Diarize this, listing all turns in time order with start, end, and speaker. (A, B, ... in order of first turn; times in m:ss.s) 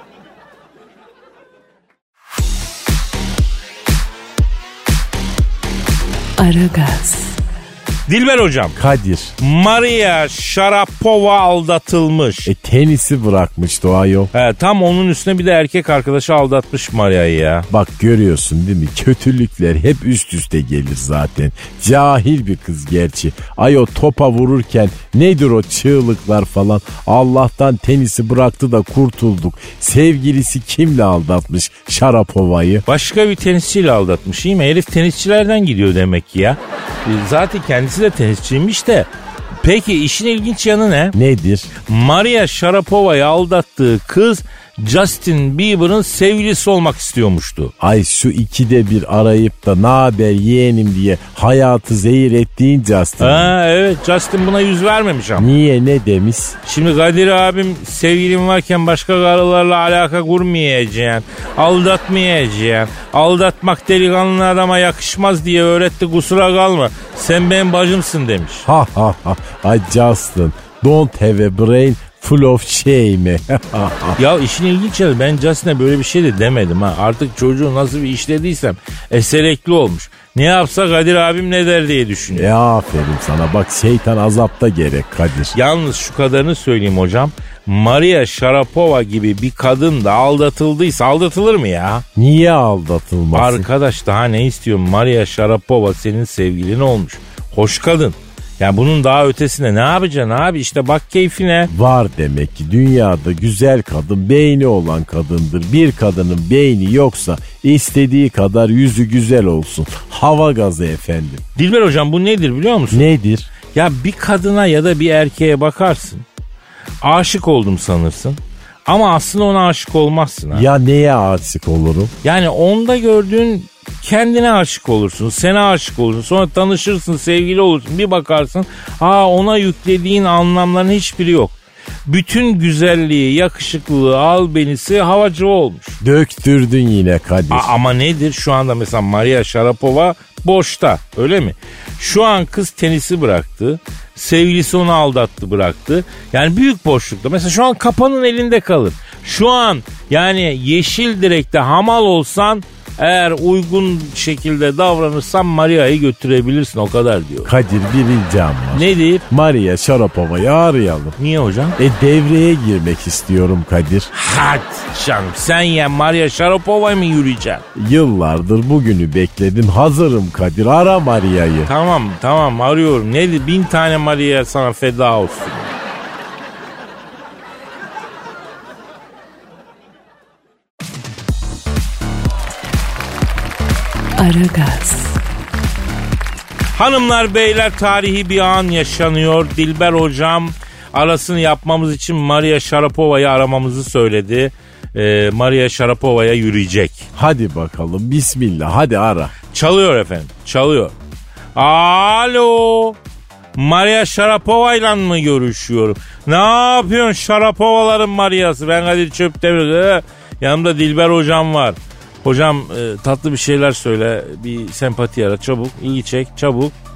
0:06.4-0:07.4 A
0:08.1-0:08.8 B
0:08.8-0:09.3 C
0:09.4-0:12.5 B
0:12.4-0:14.3 C
0:14.3-0:17.7 B
0:17.7-0:32.8 C
0:32.9-0:39.1 B
0:39.6-0:41.2 B
0:41.1-0:41.7 C
0:41.8-0:47.7 B
0:47.8-0:53.5 C
0:53.2-0:55.5 B
0:55.4-0:56.6 C
0:56.6-1:08.7 B
1:08.7-1:14.2 C
1:14.2-1:22.5 B
1:22.3-1:25.6 C
1:25.5-1:32.0 B
1:32.1-1:33.6 C
1:33.3-1:41.7 B
1:41.7-1:51.4 C
1:51.6-1:53.1 B
1:52.9-1:53.5 C
1:53.7-1:56.2 B
1:57.0-2:00.7 B
2:00.5-2:02.1 C
2:02.2-2:16.0 B
2:16.0-2:17.7 C
2:17.5-2:37.5 B
2:37.4-2:41.2 C
2:38.7-2:39.2 B
2:41.2-2:41.8 B
2:41.8-2:44.1 C
2:44.1-2:47.6 B
2:47.7-2:51.7 C
2:51.6-2:55.7 B
3:04.2-3:05.2 A
3:06.7-3:17.0 B
3:17.2-3:19.3 C
3:19.5-3:20.9 B
3:21.5-3:23.0 B
3:23.6-3:36.7 B